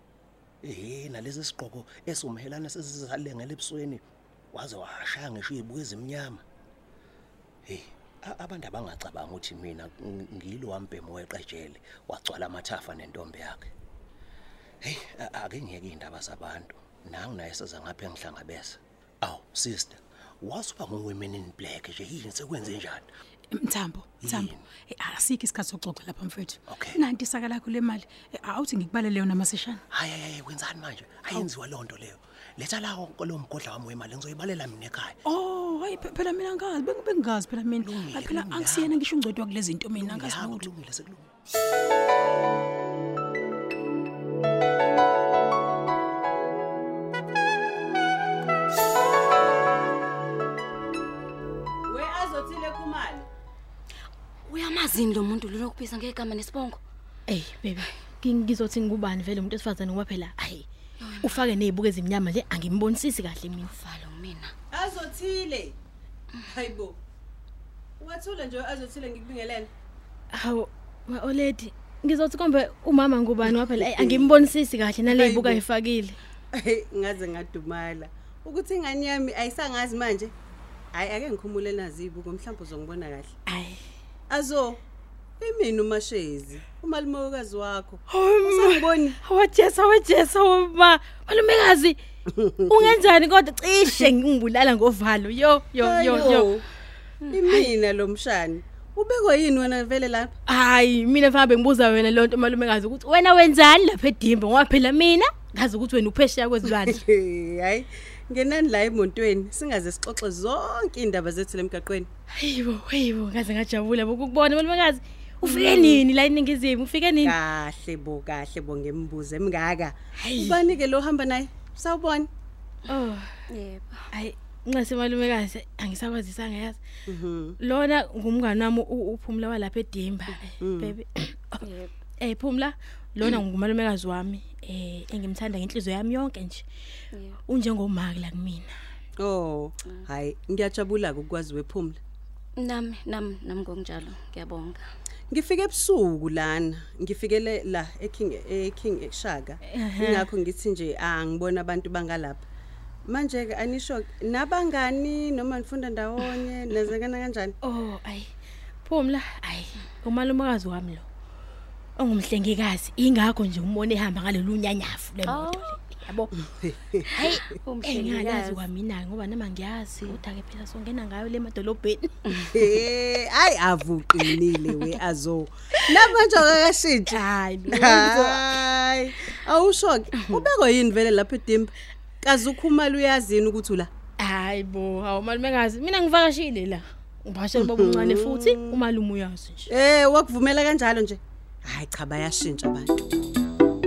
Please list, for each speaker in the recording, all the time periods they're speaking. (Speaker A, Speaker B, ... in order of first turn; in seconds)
Speaker A: 0.6-6.4, 7.7-13.7, 14.8-23.1, 24.2-24.6, 26.7-27.0, 29.9-35.2, 37.8-39.0, 39.9-41.3
Speaker B: 23.5-29.8, 35.2-40.7
Speaker C: 51.9-53.3, 64.7-65.7, 66.5-67.0, 68.0-69.7, 73.5-74.5, 75.1-75.6, 76.5-80.3, 80.9-83.3, 84.3-84.8, 85.4-89.2, 92.4-92.9, 95.8-96.6, 97.3-100.3, 106.7-112.1, 115.4-116.0, 117.2-122.3, 127.1-127.6, 130.6-130.9, 139.2-142.0, 145.3-152.4, 153.1-157.5, 166.6-167.0, 172.4-183.9, 187.5-188.7, 189.7-192.9
Speaker D: 54.5-56.8, 61.0-61.4, 63.6-64.5, 123.5-124.0, 131.6-131.9, 142.6-144.8, 165.2-165.7, 167.2-168.6
Speaker E: 57.3-60.6, 61.2-63.7, 70.3-76.2, 83.5-83.8, 88.1-92.0, 92.7-96.5, 100.5-107.0, 112.4-117.3, 120.2-120.6, 122.9-123.3, 124.1-126.8, 127.6-131.6, 132.2-136.6, 137.5-138.7, 149.7-150.3, 157.6-158.3, 158.8-161.0, 162.0-166.3, 167.1-172.2, 177.1-178.5, 184.2-189.7